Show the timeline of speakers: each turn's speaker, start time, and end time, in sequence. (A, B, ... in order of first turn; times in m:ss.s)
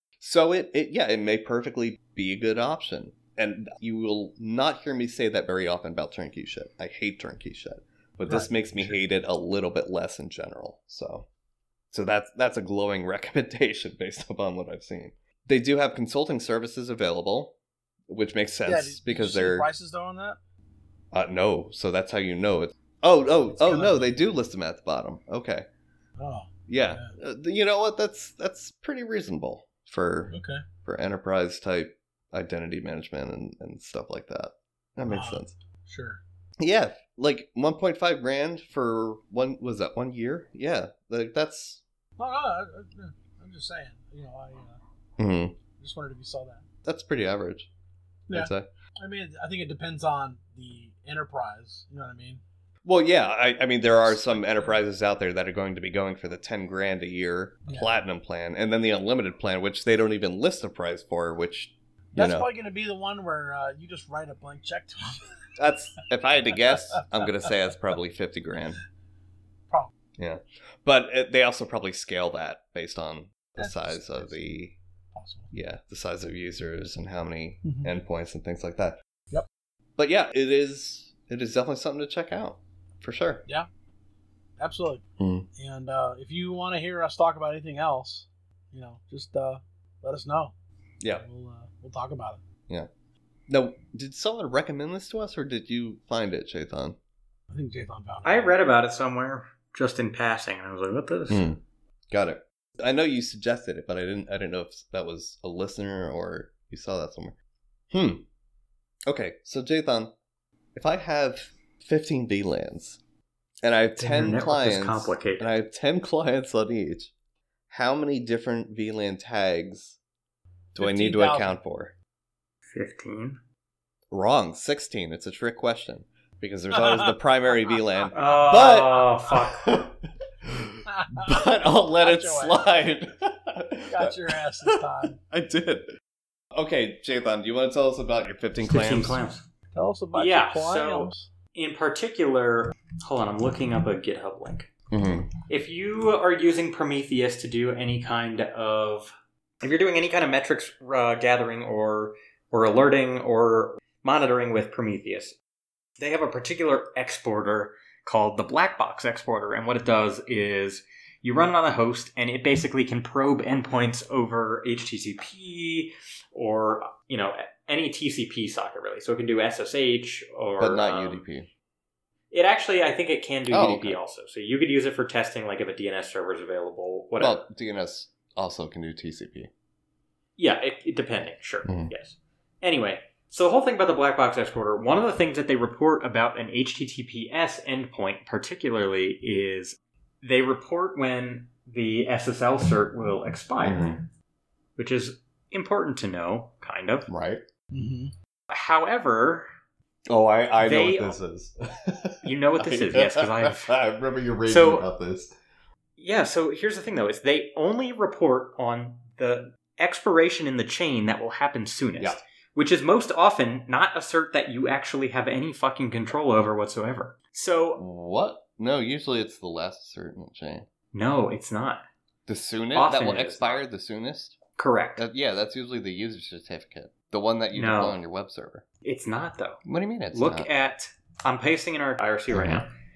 0:00.2-0:11.3 A
0:08.3-0:09.0 B
0:11.9-0:17.5 A
0:18.1-0:19.7 A
0:18.6-0:20.4 B
0:21.1-0:25.7 A
0:23.5-0:24.1 B
0:26.2-0:27.1 B
0:26.7-0:35.5 A
0:30.3-0:30.6 B
0:35.1-0:36.2 B
0:36.6-0:41.8 A
0:42.2-0:44.8 B
0:45.2-0:45.6 A
0:45.8-0:46.6 B
0:46.8-0:47.7 A
0:48.3-0:52.4 B
0:48.3-0:48.7 A
0:52.8-1:02.5 A
0:54.0-0:54.8 B
1:02.1-1:05.2 B
1:05.6-1:08.8 A
1:10.2-1:14.8 A
1:13.6-1:14.4 B
1:15.1-1:15.5 B
1:15.5-1:19.0 A
1:17.6-1:17.9 B
1:20.0-1:23.4 A
1:24.6-1:25.0 B
1:25.2-1:25.5 A
1:25.6-1:30.5 B
1:31.1-1:32.4 B
1:33.5-1:37.0 A
1:37.5-1:38.5 B
1:38.2-1:41.5 C
1:41.3-1:41.6 A
1:42.1-1:47.3 A
1:47.9-1:48.2 A
1:49.1-1:50.1 A
1:50.8-1:53.0 A
1:53.6-1:57.1 A
1:54.0-1:55.5 C
1:57.7-2:00.0 A
2:00.8-2:01.9 A
2:00.8-2:01.6 B
2:02.7-2:03.4 C
2:04.1-2:15.9 A
2:06.8-2:07.1 B
2:08.1-2:09.8 C
2:10.9-2:12.7 B
2:13.9-2:15.2 B
2:16.5-2:19.2 A
2:18.6-2:19.4 C
2:19.7-2:21.3 B
2:20.2-2:24.7 C
2:24.9-2:25.3 A
2:25.5-2:35.4 C
2:36.0-2:51.2 C
2:50.6-2:51.5 A
2:52.3-2:57.4 C
2:53.5-2:54.0 A
2:57.2-2:59.5 A
3:00.4-3:14.0 C
3:01.7-3:01.9 A
3:13.6-3:14.0 A
3:14.8-3:17.1 C
3:17.1-3:17.4 A
3:17.7-3:18.1 B
3:18.5-3:19.5 C
3:20.1-3:25.3 A
3:20.6-3:21.2 C
3:22.2-3:23.8 C
3:24.5-3:24.9 C
3:26.0-3:37.8 C
3:37.8-3:40.7 A
3:40.9-3:41.8 C
3:42.3-3:44.4 A
3:42.8-3:43.6 C
3:44.6-3:45.0 C
3:45.0-3:48.6 A
3:47.5-3:48.0 C
3:48.8-3:49.6 C
3:49.6-3:50.5 A
3:50.1-3:52.7 C
3:52.3-3:52.6 A